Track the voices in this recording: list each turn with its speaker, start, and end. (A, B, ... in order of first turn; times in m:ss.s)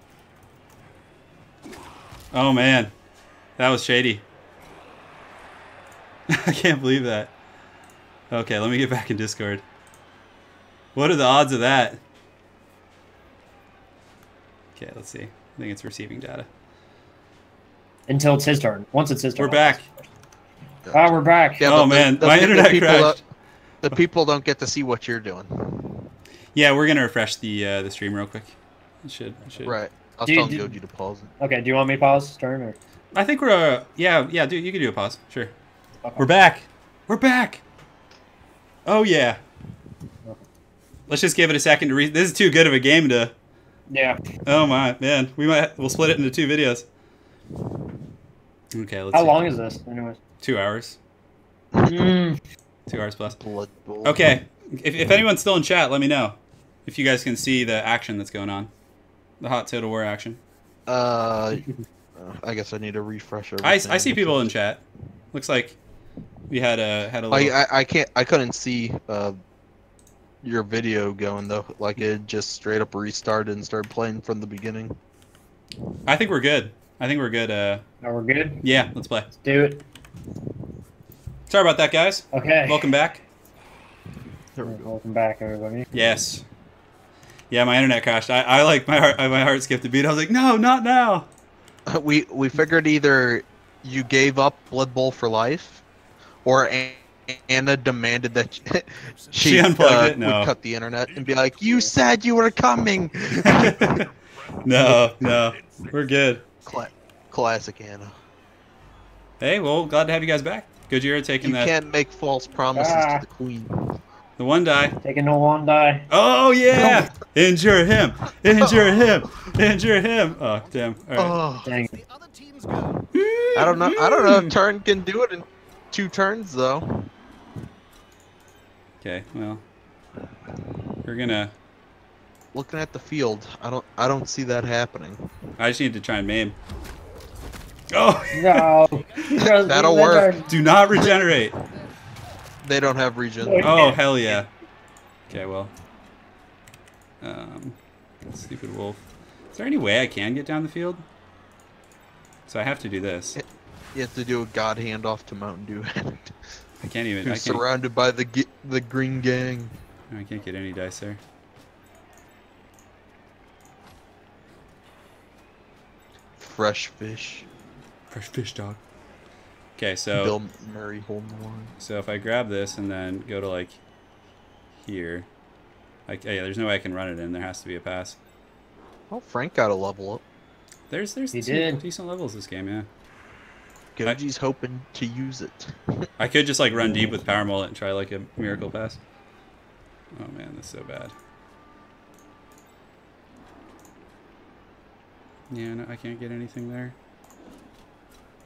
0:02.3-0:02.9 A
0:03.6-0:04.2 A
0:06.3-0:07.3 A
0:08.3-0:09.6 A
0:10.9-0:12.0 A
0:14.8-0:16.5 A
0:18.1-0:20.0 B
0:19.4-0:19.8 A
0:20.8-0:23.2 C
0:20.9-0:21.7 B
0:21.6-0:23.2 A
0:23.8-0:26.0 C
0:26.5-0:29.8 A
0:29.6-0:31.3 C
0:30.3-0:30.7 B
0:31.4-0:32.8 B
0:33.1-0:35.5 A
0:36.2-0:37.6 A
0:38.8-0:39.4 A
0:41.1-0:43.3 A
0:43.9-0:44.2 B
0:44.4-0:46.8 A
0:48.7-0:49.4 A
0:49.1-0:50.2 B
0:50.4-0:51.0 A
0:51.7-0:52.1 C
0:51.8-0:52.4 B
0:52.9-0:53.4 A
0:53.4-0:54.2 C
0:54.0-0:58.7 A
0:59.4-1:00.4 A
1:00.9-1:04.5 C
1:03.6-1:04.8 A
1:05.3-1:05.8 A
1:06.5-1:07.6 A
1:07.3-1:09.4 C
1:10.4-1:15.0 C
1:16.1-1:17.8 A
1:18.0-1:18.6 B
1:18.6-1:19.3 A
1:19.3-1:19.8 B
1:21.5-1:23.2 A
1:22.3-1:22.9 B
1:24.5-1:24.9 C
1:24.6-1:25.9 B
1:25.9-1:26.4 A
1:27.5-1:31.3 A
1:31.9-1:35.8 C
1:36.4-1:44.0 C
1:39.0-1:39.6 D
1:39.4-1:40.5 A
1:43.4-1:44.0 A
1:44.6-1:46.4 A
1:46.6-1:48.1 C
1:49.4-1:51.7 A
1:51.4-1:53.8 C
1:52.7-1:53.2 B
1:54.4-1:55.0 A
1:55.0-1:56.1 B
1:56.1-2:01.4 A
1:56.7-1:57.0 C
1:58.8-1:59.0 C
2:00.1-2:03.1 D
2:01.2-2:01.7 C
2:01.6-2:01.9 B
2:03.1-2:04.5 A
2:03.6-2:07.1 C
2:09.0-2:09.6 A
2:11.0-2:11.5 A
2:12.5-2:15.2 C
2:15.6-2:16.6 A
2:17.9-2:18.7 A
2:18.1-2:22.2 D
2:18.3-2:20.5 B
2:19.4-2:20.4 C
2:20.5-2:21.5 A
2:22.6-2:23.8 C
2:23.4-2:24.0 B
2:23.6-2:24.5 A
2:25.3-2:25.7 A
2:27.2-2:31.0 A
2:32.5-2:33.4 A
2:33.9-2:36.3 C
2:36.8-2:37.6 A
2:37.2-2:39.7 C
2:40.1-2:41.2 A
2:46.4-2:47.4 C
2:48.1-2:48.8 A
2:49.8-2:50.4 A
2:50.1-2:51.7 C
2:51.8-2:53.8 A
2:54.8-2:55.3 A
2:56.1-2:58.2 A
2:59.1-3:00.2 C
3:00.9-3:02.9 A
3:01.3-3:01.8 B
3:04.0-3:05.9 C
3:06.2-3:09.0 A
3:10.1-3:11.1 A
3:15.5-3:16.9 A